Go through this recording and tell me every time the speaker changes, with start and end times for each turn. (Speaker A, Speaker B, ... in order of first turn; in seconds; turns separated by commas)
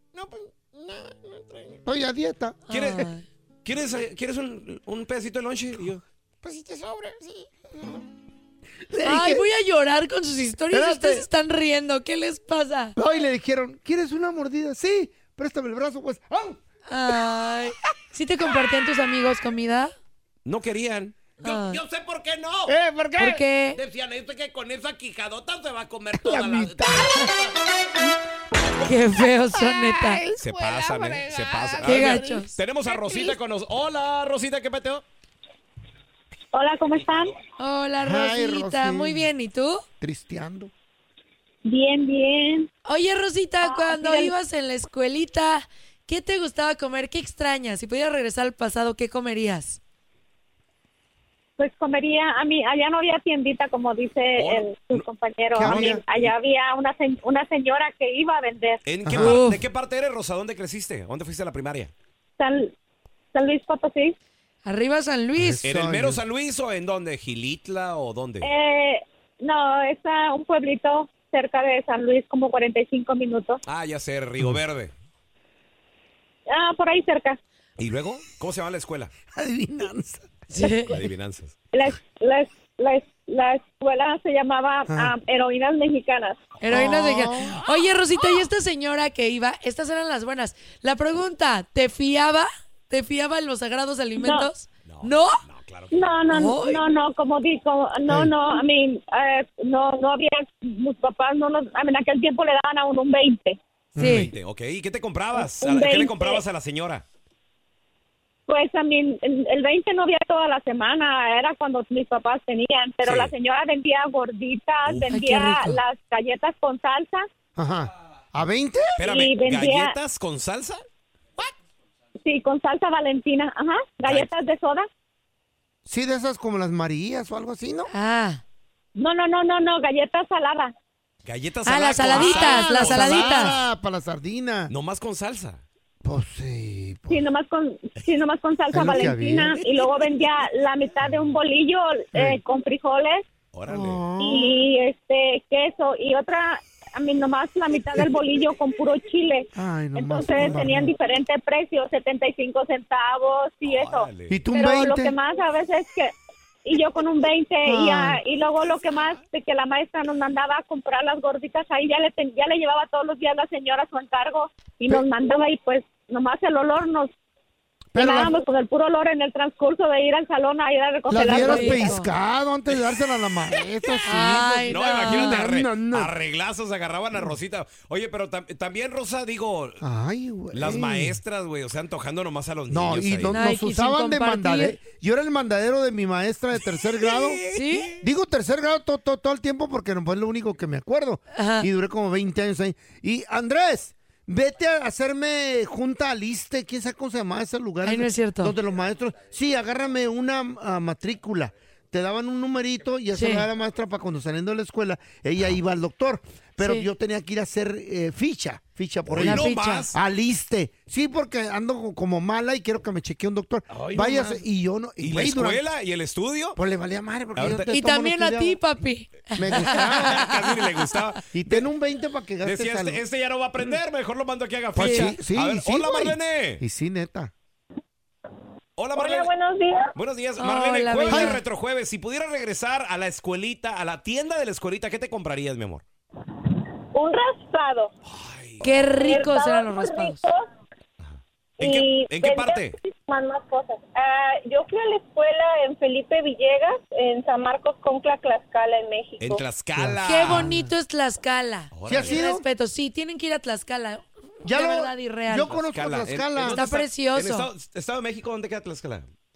Speaker A: 0.1-0.7, Speaker A: 1.8-2.6, Speaker B: 2.7-3.2, Speaker C: 2.7-3.1, Speaker C: 3.6-6.0, Speaker A: 6.4-8.0, Speaker A: 8.9-9.4, Speaker B: 9.0-12.9, Speaker A: 10.7-11.2, Speaker A: 13.0-16.6, Speaker B: 16.9-19.9, Speaker C: 20.4-22.8, Speaker B: 21.4-21.8, Speaker A: 22.7-23.4, Speaker B: 23.2-23.8, Speaker C: 23.7-27.5, Speaker A: 26.2-27.2, Speaker B: 28.8-30.2, Speaker A: 30.1-32.3, Speaker C: 30.4-35.0, Speaker B: 31.8-32.5, Speaker D: 36.5-37.3, Speaker B: 37.6-39.8, Speaker A: 38.0-39.3, Speaker A: 40.0-40.7, Speaker D: 41.6-42.7, Speaker B: 42.8-49.8, Speaker D: 43.6-44.3, Speaker D: 51.6-58.8, Speaker C: 54.4-55.0, Speaker A: 55.5-56.0, Speaker C: 55.6-56.3, Speaker C: 58.8-61.9, Speaker A: 59.0-59.4, Speaker B: 59.2-59.6, Speaker D: 62.4-62.7, Speaker D: 63.3-64.1, Speaker B: 64.6-65.6, Speaker A: 65.3-66.2, Speaker C: 65.6-68.5, Speaker D: 68.4-73.6, Speaker C: 73.7-74.9, Speaker D: 76.5-77.4, Speaker C: 77.8-79.1, Speaker A: 79.3-80.4, Speaker B: 80.5-81.0, Speaker C: 80.9-81.5, Speaker D: 81.7-86.4, Speaker A: 84.9-85.1, Speaker B: 86.6-95.4, Speaker A: 86.7-87.6, Speaker D: 94.2-94.5, Speaker C: 94.8-96.1, Speaker D: 95.9-103.6, Speaker B: 96.3-96.8, Speaker A: 98.1-98.3, Speaker A: 103.9-104.3, Speaker B: 104.0-104.3, Speaker C: 104.0-107.0, Speaker D: 105.4-106.4, Speaker D: 108.5-117.2, Speaker C: 113.0-113.3, Speaker C: 114.8-115.1, Speaker B: 115.1-115.8, Speaker A: 117.5-119.0, Speaker C: 119.0-120.8, Speaker D: 119.0-119.9, Speaker D: 122.2-124.9, Speaker C: 124.0-124.3, Speaker A: 125.8-127.9, Speaker B: 127.9-128.4, Speaker D: 129.0-130.7, Speaker C: 131.2-133.6, Speaker B: 131.7-133.5, Speaker A: 132.1-134.7, Speaker C: 134.7-135.6, Speaker A: 136.0-137.2, Speaker D: 137.1-143.2, Speaker A: 138.7-139.6, Speaker A: 142.1-142.4, Speaker C: 143.5-144.0, Speaker A: 143.7-144.6, Speaker D: 144.2-156.1, Speaker A: 149.5-150.9, Speaker C: 153.6-154.4, Speaker A: 154.3-155.1, Speaker D: 156.7-167.1, Speaker A: 157.6-158.2, Speaker A: 167.9-168.3, Speaker D: 167.9-172.0, Speaker A: 171.1-176.1, Speaker B: 171.2-172.1, Speaker B: 174.0-175.4, Speaker C: 174.7-179.8, Speaker A: 179.8-181.2, Speaker C: 180.5-183.4, Speaker A: 182.7-187.4, Speaker B: 183.3-184.8, Speaker C: 186.9-188.0, Speaker B: 187.5-187.9, Speaker A: 187.9-215.6, Speaker B: 191.3-191.7, Speaker B: 197.8-198.5, Speaker B: 203.1-203.5, Speaker B: 206.6-206.9, Speaker C: 209.1-209.9, Speaker B: 209.2-209.9, Speaker C: 213.7-214.4, Speaker C: 215.0-216.6, Speaker A: 216.6-218.6, Speaker C: 217.3-217.7, Speaker B: 217.7-220.4, Speaker A: 219.3-220.3, Speaker C: 219.6-221.7, Speaker A: 221.3-223.0, Speaker C: 222.4-226.6, Speaker A: 224.7-227.3, Speaker B: 224.8-225.1, Speaker C: 228.8-229.3, Speaker D: 228.9-229.9, Speaker C: 229.9-235.8, Speaker B: 230.4-231.4, Speaker A: 231.1-231.4, Speaker D: 236.9-237.9, Speaker C: 238.0-238.9, Speaker B: 238.6-240.2, Speaker D: 239.0-240.4, Speaker C: 241.0-242.8, Speaker D: 241.6-249.4, Speaker C: 249.2-250.5, Speaker A: 249.8-250.7, Speaker B: 250.0-255.6, Speaker C: 251.7-252.2, Speaker A: 251.8-252.4, Speaker A: 254.4-256.6, Speaker C: 255.5-259.1, Speaker B: 256.4-257.5